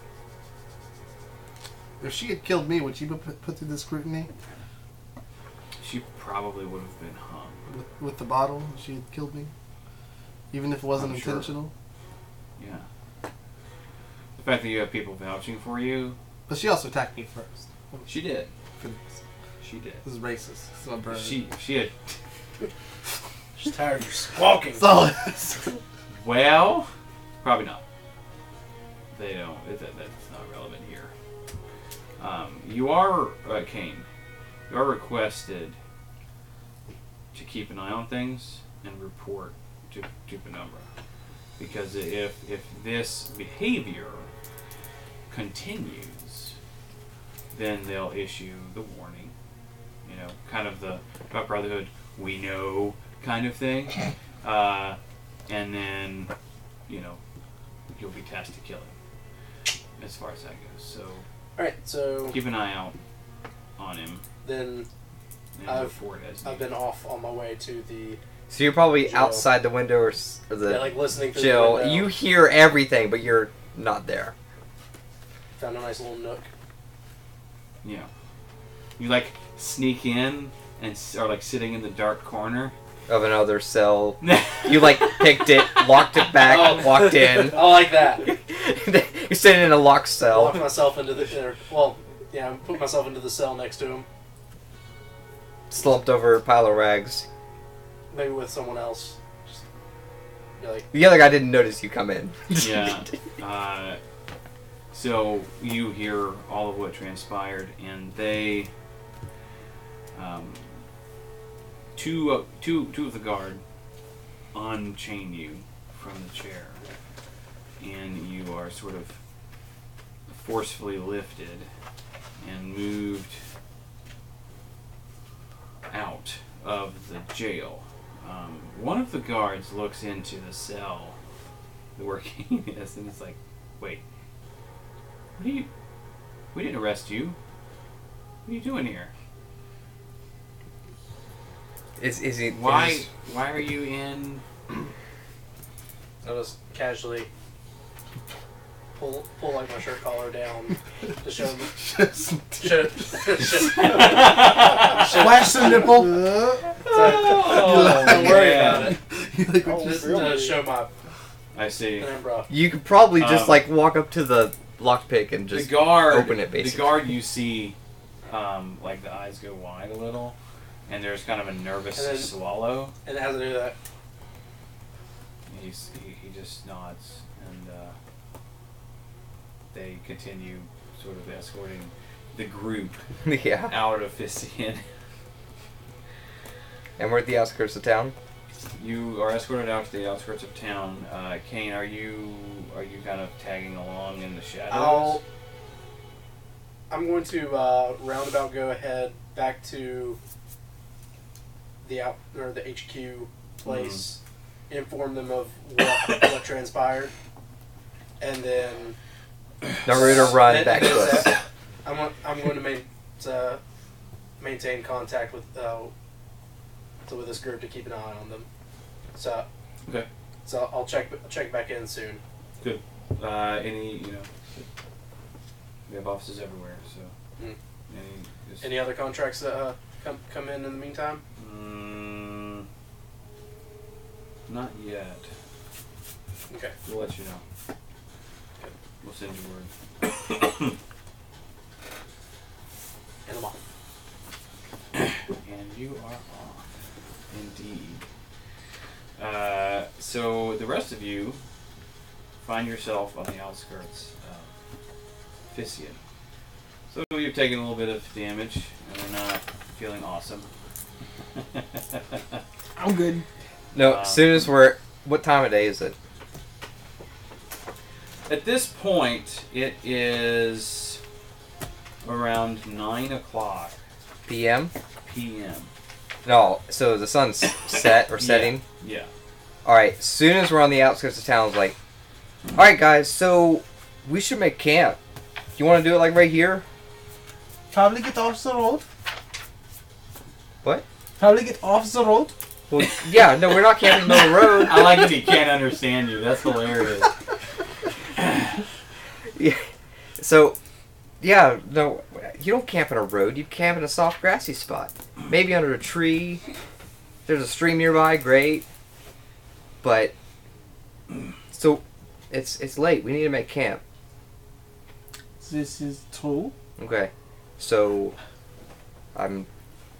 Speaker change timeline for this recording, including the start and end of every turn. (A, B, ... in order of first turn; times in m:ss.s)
0:02.0-0:04.3 A
0:05.8-0:07.7 B
0:07.7-0:09.5 A
0:10.5-0:11.7 A
0:11.0-0:11.5 B
0:12.6-0:12.8 B
0:14.4-0:16.2 B
0:16.5-0:18.1 A
0:18.0-0:18.5 B
0:18.8-0:19.1 A
0:19.6-0:20.0 B
0:20.0-0:21.4 A
0:21.1-0:22.2 B
0:23.6-0:25.1 C
0:24.7-0:25.7 A
0:26.1-0:26.9 B
0:27.4-0:27.8 B
0:29.1-0:31.1 B
0:32.2-0:34.1 B
0:34.7-0:35.8 B
0:37.3-0:40.8 B
0:41.6-0:44.3 B
0:45.3-0:46.5 B
0:47.5-0:49.3 B
0:50.0-0:56.3 B
0:56.9-0:57.2 B
0:57.9-0:58.9 B
1:00.0-1:01.2 B
1:01.6-1:02.4 C
1:02.3-1:03.0 B
1:03.8-1:04.2 B
1:04.4-1:04.9 C
1:05.6-1:06.7 B
1:05.6-1:05.9 C
1:06.4-1:08.2 C
1:08.5-1:14.3 D
1:09.0-1:09.4 C
1:10.6-1:12.1 C
1:15.6-1:16.5 C
1:17.8-1:18.1 B
1:19.0-1:22.7 B
1:23.1-1:30.7 D
1:24.2-1:25.8 B
1:26.4-1:28.3 C
1:30.3-1:34.0 C
1:35.7-1:37.2 D
1:38.1-1:39.6 C
1:40.6-1:40.9 C
1:40.9-1:43.0 D
1:42.6-1:44.0 B
1:44.9-1:48.7 B
1:50.1-1:50.8 B
1:51.9-1:53.6 B
1:54.5-1:56.8 B
1:57.8-1:59.2 B
2:00.3-2:01.7 B
2:02.4-2:03.4 B
2:05.9-2:11.2 B
2:12.0-2:14.0 B
2:15.4-2:15.7 B
2:16.5-2:17.4 B
2:18.4-2:19.1 B
2:22.0-2:23.1 D
2:22.5-2:24.4 B
2:26.2-2:27.3 C
2:28.9-2:31.7 C
2:31.7-2:33.5 A
2:32.6-2:36.0 C
2:33.7-2:35.0 B
2:35.1-2:36.1 E
2:35.4-2:40.3 A
2:36.8-2:38.9 B
2:36.8-2:39.0 C
2:39.6-2:40.9 C
2:41.5-2:42.1 B
2:42.0-2:42.5 C
2:42.5-2:47.0 D
2:43.2-2:43.6 B
2:45.5-2:47.8 B
2:48.3-2:50.4 B
2:50.9-2:52.9 B
2:52.0-2:52.3 C
2:53.0-2:53.8 C
2:55.5-2:57.9 B
2:59.7-3:03.0 B
3:03.2-3:03.7 D
3:03.7-3:04.8 B
3:07.0-3:08.1 D
3:08.8-3:15.2 B
3:14.7-3:15.2 C
3:16.9-3:20.2 C
3:21.8-3:27.1 C
3:23.6-3:24.0 B
3:28.2-3:29.0 C
3:29.8-3:31.3 D
3:29.9-3:33.6 C
3:34.4-3:35.9 C
3:37.0-3:38.5 C
3:39.1-3:39.5 C
3:40.4-3:42.2 C
3:42.6-3:44.7 B
3:45.9-3:47.1 B
3:47.9-3:48.7 B
3:48.6-3:51.2 C
3:51.4-3:52.7 B
3:54.5-3:55.3 B
3:56.5-3:56.7 C
3:56.8-3:57.4 B
3:59.0-4:00.7 B
4:03.2-4:03.6 C
4:05.1-4:06.7 B
4:07.3-4:08.0 B
4:09.2-4:11.4 B
4:12.4-4:14.5 B
4:15.5-4:16.0 B
4:16.9-4:20.5 B
4:21.4-4:22.4 B
4:22.8-4:23.2 E
4:23.7-4:26.0 D
4:23.7-4:24.5 B
4:28.3-4:31.0 B
4:32.0-4:33.8 B
4:34.3-4:34.7 D
4:35.0-4:35.7 B
4:36.2-4:38.6 D
4:38.2-4:39.1 B
4:39.6-4:41.8 D
4:42.5-4:45.0 D
4:45.6-4:46.6 D
4:47.7-4:48.8 E
4:51.2-4:52.3 E
4:52.7-4:55.1 D
4:54.0-4:57.1 B
4:58.2-4:58.5 B
4:59.3-5:00.6 D
5:01.2-5:06.4 D
5:07.2-5:08.7 D
5:09.8-5:10.1 D
5:11.5-5:13.8 D
5:15.4-5:16.5 E
5:16.8-5:18.1 D
5:19.1-5:19.5 D